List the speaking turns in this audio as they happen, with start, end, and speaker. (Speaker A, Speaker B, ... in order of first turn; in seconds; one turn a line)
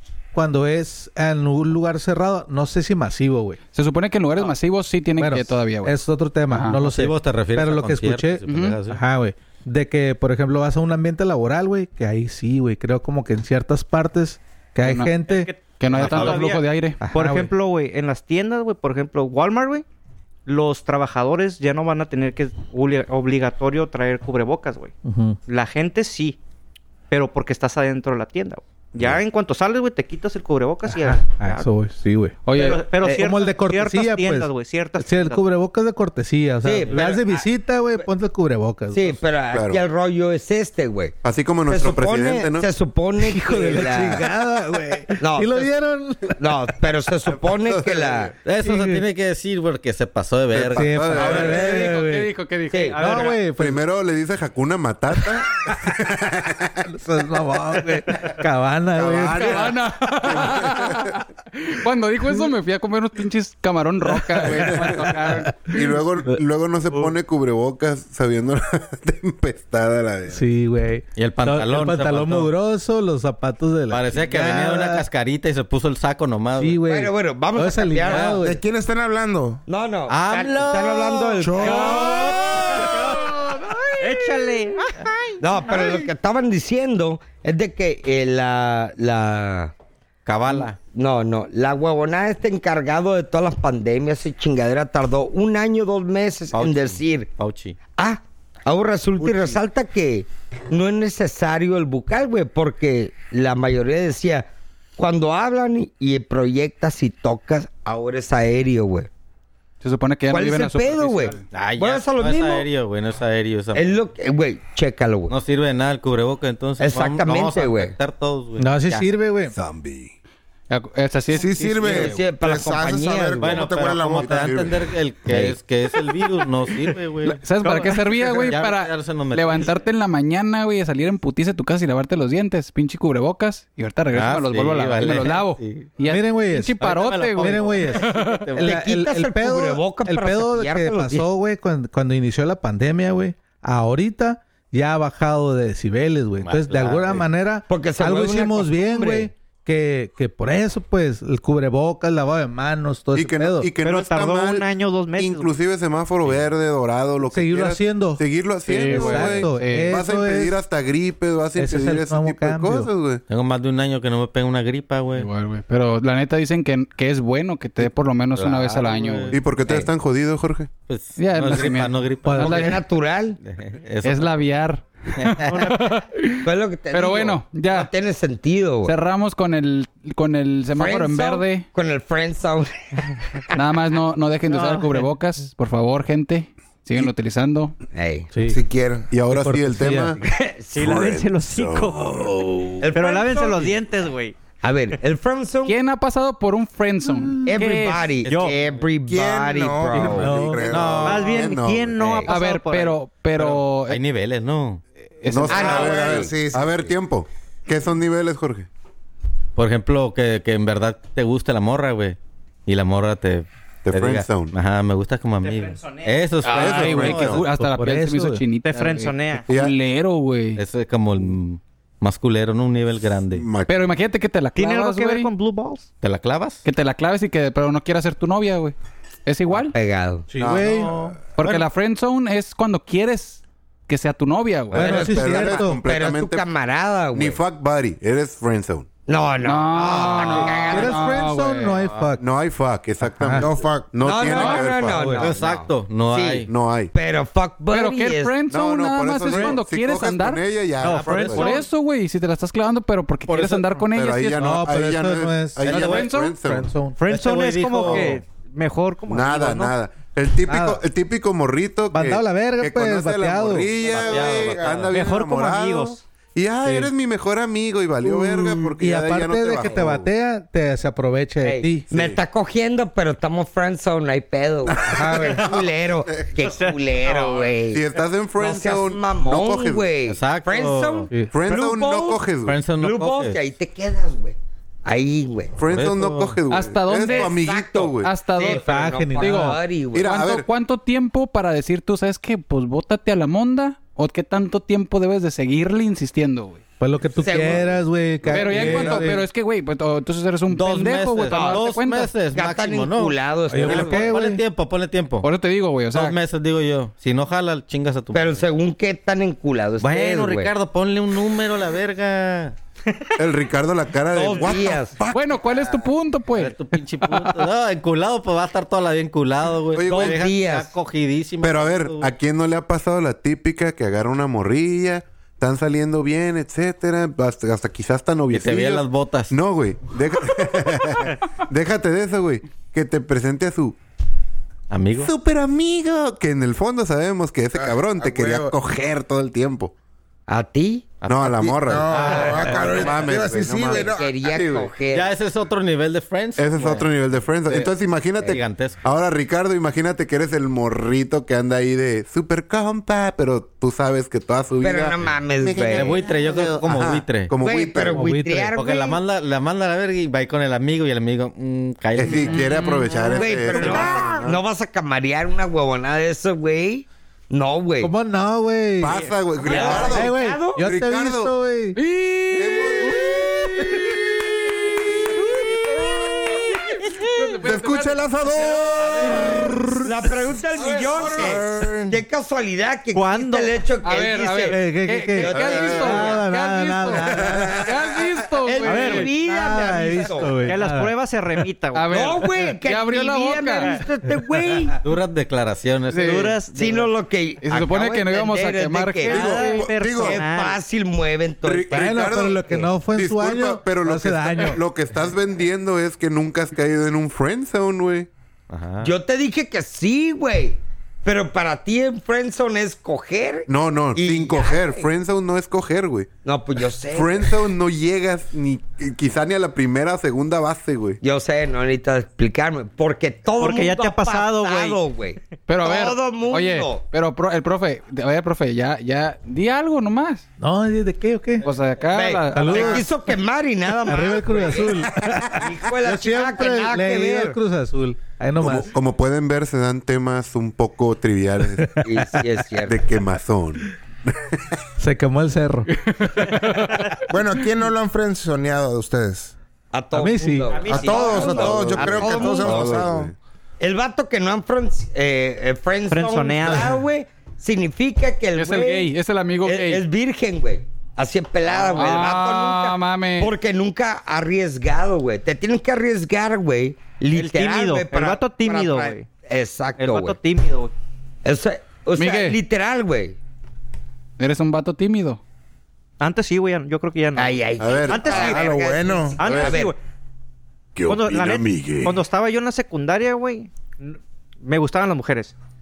Speaker A: 0.3-3.6
Speaker B: 3.7-6.8
Speaker A: 5.2-15.5
Speaker C: 6.7-9.0
Speaker B: 8.5-8.8
Speaker B: 14.8-15.1
Speaker D: 15.2-19.8
Speaker B: 15.8-17.0
Speaker C: 15.9-16.4
Speaker A: 17.0-17.5
Speaker D: 20.4-24.9
Speaker A: 25.0-25.4
Speaker D: 25.5-26.4
Speaker D: 27.1-31.6
Speaker A: 30.9-32.4
Speaker B: 32.5-32.8
Speaker D: 32.5-35.4
Speaker A: 33.0-39.2
Speaker E: 36.6-37.5
Speaker E: 38.9-44.3
Speaker F: 39.5-39.8
Speaker F: 41.2-42.7
Speaker A: 43.2-46.7
Speaker E: 45.2-45.7
Speaker E: 46.4-48.3
Speaker F: 47.3-48.3
Speaker C: 48.4-51.1
Speaker A: 48.6-49.0
Speaker F: 50.5-51.8
Speaker A: 50.7-52.3
Speaker B: 51.1-53.3
Speaker E: 52.7-53.0
Speaker A: 53.0-53.8
Speaker D: 53.0-53.5
Speaker F: 53.5-56.9
Speaker A: 56.9-59.7
Speaker F: 59.0-59.7
Speaker B: 59.3-65.7
Speaker F: 60.2-61.1
Speaker A: 64.4-66.0
Speaker F: 64.5-65.1
Speaker F: 65.7-70.4
Speaker A: 70.3-75.0
Speaker C: 71.2-72.5
Speaker C: 73.9-76.8
Speaker A: 76.6-78.6
Speaker E: 76.9-78.4
Speaker C: 78.0-78.4
Speaker G: 78.4-79.6
Speaker E: 79.7-82.8
Speaker C: 80.1-81.9
Speaker A: 81.4-82.5
Speaker D: 81.6-86.0
Speaker E: 85.4-89.7
Speaker C: 90.2-90.8
Speaker E: 90.5-97.3
Speaker C: 96.5-97.8
Speaker E: 98.0-109.1
Speaker C: 99.2-99.5
Speaker B: 109.8-111.4
Speaker E: 110.3-112.7
Speaker C: 111.5-113.9
Speaker E: 113.7-115.3
Speaker C: 115.3-119.1
Speaker E: 116.8-117.9
Speaker A: 118.6-119.5
Speaker F: 119.5-120.1
Speaker B: 120.7-122.0
Speaker G: 121.3-124.7
Speaker C: 121.8-122.2
Speaker E: 121.8-123.7
Speaker C: 123.4-129.8
Speaker F: 124.1-125.5
Speaker B: 127.2-138.5
Speaker C: 134.1-135.9
Speaker A: 136.0-136.8
Speaker C: 136.8-138.8
Speaker A: 137.3-153.7
Speaker E: 138.6-141.3
Speaker C: 146.4-147.2
Speaker E: 147.7-149.3
Speaker F: 153.1-163.2
Speaker D: 153.8-155.5
Speaker A: 157.2-160.6
Speaker B: 158.7-160.0
Speaker A: 161.6-162.9
Speaker C: 163.3-165.3
Speaker B: 165.2-169.3
Speaker C: 168.3-169.8
Speaker F: 169.3-170.7
Speaker C: 170.9-172.8
Speaker B: 171.2-172.8
Speaker A: 172.2-172.7
Speaker E: 172.4-173.4
Speaker C: 173.4-174.4
Speaker B: 174.0-177.9
Speaker D: 175.5-175.9
Speaker E: 176.4-178.9
Speaker B: 178.8-181.7
Speaker E: 180.7-183.4
Speaker B: 183.5-187.7
Speaker D: 184.5-185.0
Speaker E: 187.9-188.3
Speaker G: 188.5-189.1
Speaker F: 189.1-190.2
Speaker A: 189.3-190.1
Speaker E: 190.2-191.1
Speaker D: 190.7-194.4
Speaker F: 190.8-191.4
Speaker H: 190.9-192.8
Speaker E: 192.8-193.8
Speaker E: 194.6-195.8
Speaker B: 195.7-198.1
Speaker A: 197.1-197.4
Speaker E: 197.4-200.5
Speaker D: 198.2-198.6
Speaker G: 199.1-201.3
Speaker A: 200.0-200.9
Speaker C: 200.7-201.5
Speaker F: 200.8-201.9
Speaker D: 201.0-203.0
Speaker E: 202.0-202.3
Speaker B: 202.3-204.0
Speaker C: 203.4-204.8
Speaker B: 205.2-205.8
Speaker F: 205.3-208.7
Speaker E: 205.5-206.3
Speaker G: 205.5-206.9
Speaker C: 209.6-217.4
Speaker F: 213.8-214.5
Speaker D: 215.4-216.7
Speaker F: 216.4-217.4
Speaker B: 216.6-220.6
Speaker A: 217.5-218.4
Speaker D: 218.6-219.4
Speaker F: 219.5-219.7
Speaker C: 220.6-223.4
Speaker F: 223.3-223.8
Speaker B: 223.7-225.3
Speaker D: 224.6-225.9
Speaker C: 226.0-226.6
Speaker B: 226.6-228.7
Speaker B: 229.2-229.7
Speaker E: 229.7-230.3
Speaker A: 230.3-231.1
Speaker F: 230.4-231.1
Speaker B: 231.4-235.1
Speaker C: 231.4-231.7
Speaker F: 234.7-236.5
Speaker A: 234.7-235.8
Speaker E: 234.8-237.4
Speaker F: 237.1-238.8
Speaker E: 239.1-241.1
Speaker B: 239.4-241.8
Speaker A: 239.9-242.2
Speaker F: 242.2-245.2
Speaker A: 243.0-243.5
Speaker G: 243.4-244.0
Speaker E: 244.0-248.4
Speaker B: 244.2-244.7
Speaker A: 244.8-245.3
Speaker C: 245.2-246.5
Speaker F: 246.5-246.9
Speaker B: 247.7-250.4
Speaker F: 248.5-251.5
Speaker D: 249.3-249.6
Speaker D: 250.8-251.7
Speaker C: 250.8-251.3
Speaker B: 251.1-254.4
Speaker C: 253.3-253.8
Speaker F: 253.9-256.7
Speaker A: 254.3-255.7
Speaker C: 255.6-256.1
Speaker B: 255.7-256.4
Speaker A: 256.4-257.0
Speaker D: 257.0-259.8
Speaker C: 257.1-258.2
Speaker F: 259.1-270.1
Speaker A: 260.5-260.8
Speaker A: 261.9-263.7
Speaker C: 263.8-264.9
Speaker G: 264.0-264.7
Speaker D: 264.9-266.0
Speaker A: 266.6-266.9
Speaker A: 268.0-271.9
Speaker E: 271.4-277.8
Speaker F: 271.9-272.2
Speaker F: 274.7-275.4
Speaker D: 275.4-275.7
Speaker F: 276.1-276.4
Speaker D: 276.4-277.6
Speaker F: 277.7-279.9
Speaker E: 278.4-282.1
Speaker C: 280.1-281.1
Speaker F: 281.3-282.6
Speaker D: 281.5-282.2
Speaker C: 282.4-283.4
Speaker E: 282.7-285.6
Speaker F: 285.6-288.2
Speaker C: 285.6-286.4
Speaker B: 286.5-287.4
Speaker E: 287.0-290.1
Speaker B: 288.0-296.6
Speaker A: 288.4-289.6
Speaker F: 289.9-290.4
Speaker A: 296.8-299.2
Speaker E: 297.1-297.7
Speaker B: 298.3-302.1
Speaker F: 298.3-299.1
Speaker C: 300.5-305.3
Speaker E: 301.3-301.6
Speaker E: 302.3-304.1
Speaker A: 303.5-304.4
Speaker B: 305.2-306.1
Speaker C: 305.9-308.4
Speaker E: 308.1-310.5
Speaker C: 309.8-312.6
Speaker F: 313.2-315.7
Speaker E: 314.1-314.9
Speaker B: 315.1-316.6
Speaker C: 316.3-322.1
Speaker F: 319.7-320.2
Speaker E: 319.9-320.7
Speaker F: 321.4-333.8
Speaker C: 328.3-329.3
Speaker C: 334.7-335.1
Speaker F: 335.0-339.7
Speaker G: 337.5-338.5
Speaker E: 340.3-340.9
Speaker C: 341.0-343.1
Speaker F: 341.0-344.7
Speaker G: 341.6-344.1
Speaker E: 343.7-345.1
Speaker C: 344.9-346.9
Speaker F: 346.4-358.1
Speaker C: 347.5-348.8
Speaker E: 354.6-356.1
Speaker C: 355.7-357.3
Speaker E: 357.4-359.0
Speaker A: 357.9-358.5
Speaker C: 358.6-362.6
Speaker F: 361.9-364.4
Speaker E: 362.9-367.9
Speaker A: 367.8-369.0
Speaker F: 368.8-371.3
Speaker D: 368.9-369.9
Speaker E: 369.4-370.6
Speaker A: 369.7-371.8
Speaker B: 371.7-373.3
Speaker F: 372.3-381.9
Speaker B: 376.8-379.1
Speaker E: 379.8-384.6
Speaker D: 382.9-383.6
Speaker B: 383.8-389.1
Speaker A: 384.5-387.7
Speaker E: 385.2-386.2
Speaker F: 385.4-386.0
Speaker F: 387.2-388.0
Speaker C: 388.4-389.0
Speaker D: 388.6-389.1
Speaker E: 388.8-390.4
Speaker A: 389.1-390.9
Speaker D: 390.4-392.2
Speaker B: 391.7-393.7
Speaker E: 391.9-394.8
Speaker C: 394.8-396.4
Speaker B: 395.9-396.3
Speaker D: 395.9-396.9
Speaker E: 396.5-402.7
Speaker B: 397.4-399.6
Speaker D: 399.0-400.6
Speaker F: 399.1-400.2
Speaker F: 401.4-408.1
Speaker A: 401.7-404.6
Speaker C: 408.5-408.9
Speaker E: 408.8-414.9
Speaker F: 413.5-416.1
Speaker E: 416.2-417.5
Speaker F: 416.9-421.0
Speaker E: 421.0-426.8
Speaker D: 423.4-424.8
Speaker B: 425.5-430.2
Speaker A: 430.4-431.4
Speaker B: 431.4-432.9
Speaker E: 431.9-437.4
Speaker A: 432.3-432.9
Speaker A: 433.8-438.7
Speaker F: 438.4-441.9
Speaker E: 441.8-442.8
Speaker F: 442.6-444.4
Speaker A: 444.8-445.7
Speaker B: 445.8-446.9
Speaker D: 446.4-447.0
Speaker G: 447.1-449.3
Speaker E: 449.7-452.9
Speaker A: 449.9-450.7
Speaker D: 450.4-452.5
Speaker G: 450.7-453.1
Speaker F: 450.9-453.1
Speaker E: 453.6-458.9
Speaker D: 455.9-456.7
Speaker B: 458.4-459.8
Speaker E: 459.4-470.2
Speaker B: 461.7-463.3
Speaker D: 467.1-469.1
Speaker D: 469.8-470.7
Speaker E: 471.2-473.2
Speaker B: 472.0-472.4
Speaker B: 474.2-475.2
Speaker D: 476.0-478.4
Speaker E: 477.1-479.7
Speaker F: 477.6-479.6
Speaker G: 478.2-479.2
Speaker D: 479.2-479.8
Speaker H: 480.7-482.0
Speaker D: 480.9-485.3